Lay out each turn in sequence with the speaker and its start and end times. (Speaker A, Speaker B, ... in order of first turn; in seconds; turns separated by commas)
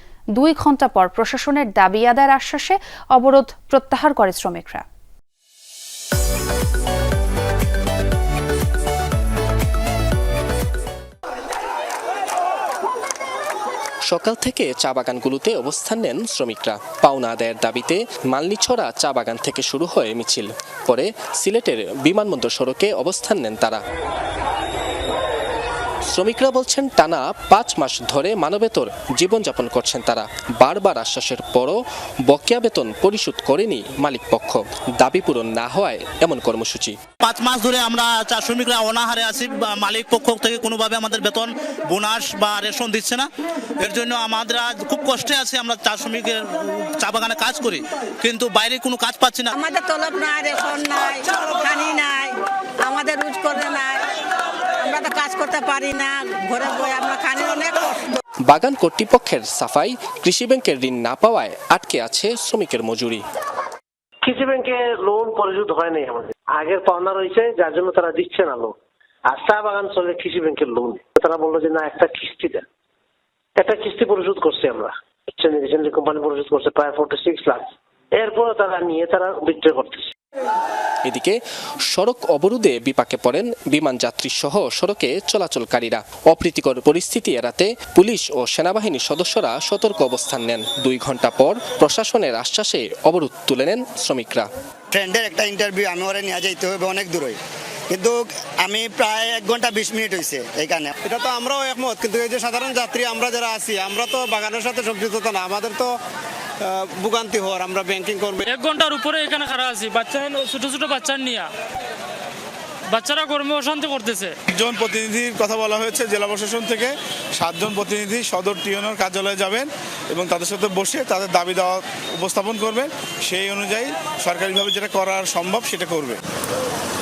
Speaker A: 0.3-4.8, Speaker B: 14.1-23.8, Speaker B: 26.1-37.0, Speaker C: 37.2-43.2, Speaker C: 43.8-46.4, Speaker C: 47.0-49.5, Speaker D: 49.5-54.0, Speaker D: 54.8-58.2, Speaker B: 58.5-63.2, Speaker E: 64.2-68.8, Speaker E: 69.3-72.6, Speaker E: 73.6-80.1, Speaker B: 81.0-94.5, Speaker F: 94.9-97.4, Speaker F: 97.9-100.9, Speaker G: 101.0-105.9, Speaker G: 106.6-108.4, Speaker H: 108.4-111.5, Speaker H: 112.9-114.3, Speaker I: 114.5-126.2